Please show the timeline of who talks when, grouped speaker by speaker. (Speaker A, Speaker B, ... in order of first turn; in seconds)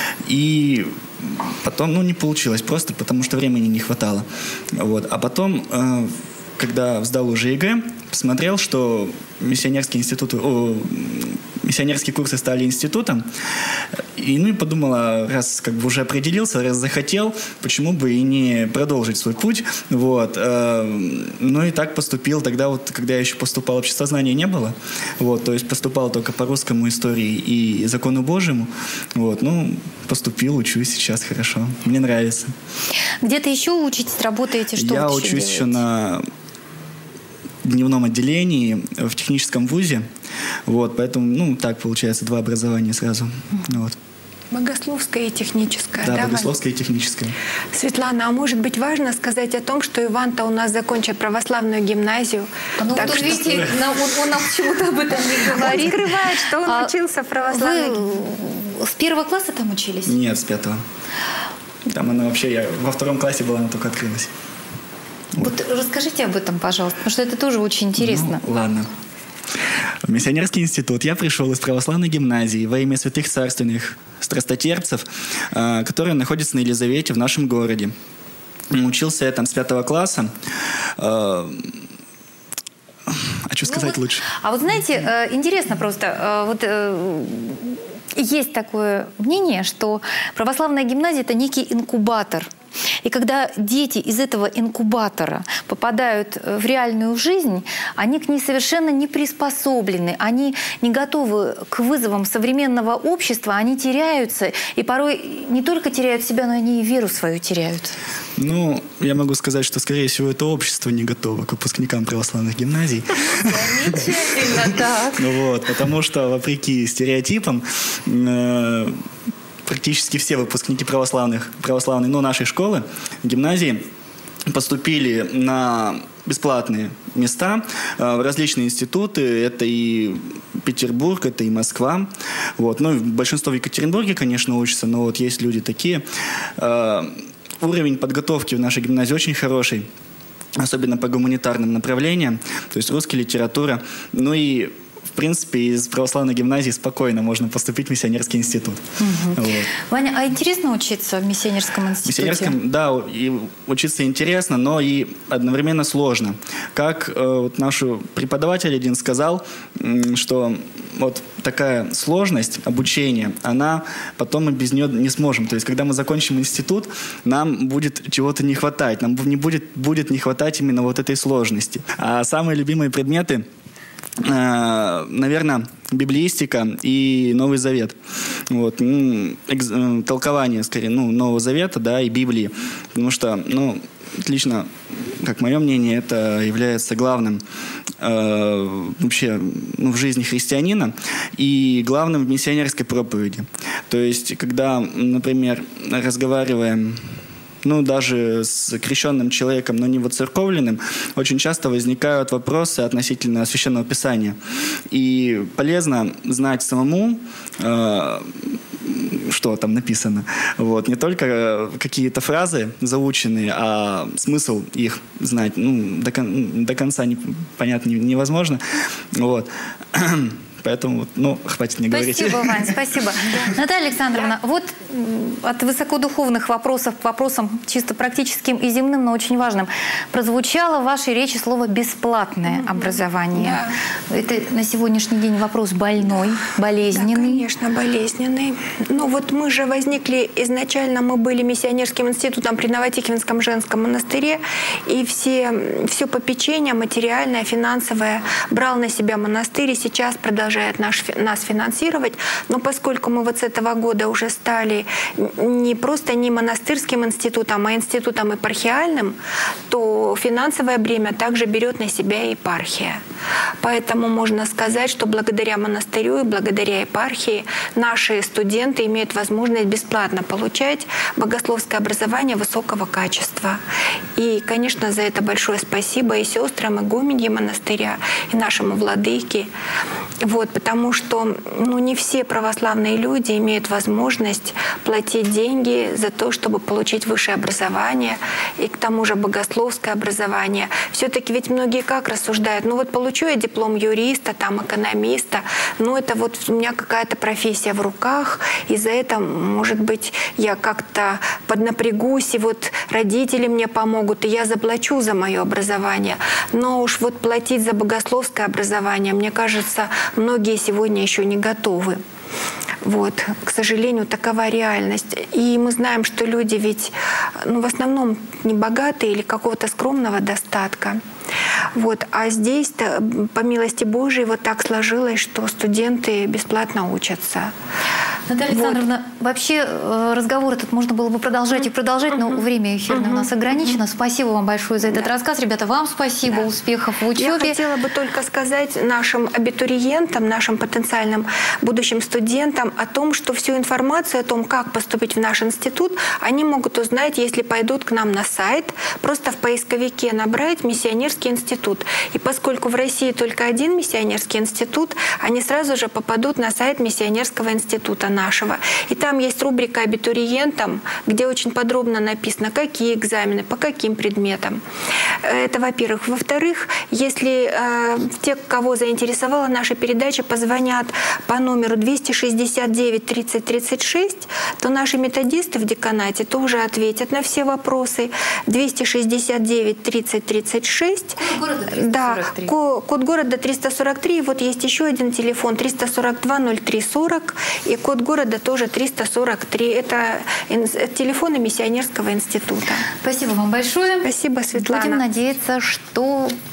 Speaker A: 0.3-13.2, 14.2-32.5, 34.8-36.2, 37.6-40.0, 40.7-44.0, 46.0-47.4, 53.0-53.8, 60.1-60.8, 61.9-64.3, 68.0-68.9, 70.0-77.9, 78.7-80.3, 81.0-81.8, 83.1-84.3, 108.4-114.0, 115.2-119.0, 119.7-123.9, 124.5-136.0, 136.6-139.9, 140.6-148.8, 149.3-149.7, 152.1-173.4, 174.2-178.0, 178.5-187.4, 188.0-197.0, 197.6-204.4, 204.9-208.3, 208.8-218.6, 219.2-222.7
Speaker B: 33.2-35.8, 52.8-56.9, 57.5-60.2, 65.4-68.4, 83.7-92.5, 93.0-108.0, 113.4-115.2, 149.0-152.6, 221.9-237.4, 328.3-337.6, 381.2-382.5, 392.9-396.4
Speaker C: 44.5-46.5, 47.7-53.7, 55.5-58.1, 232.5-233.8, 236.9-259.2, 259.7-263.0, 263.6-273.6, 274.2-279.5, 280.2-312.0, 312.8-316.9, 317.4-321.0, 321.7-327.5, 328.5-328.8, 332.9-333.8, 337.2-364.6, 365.2-381.2, 381.7-392.9, 394.0-395.0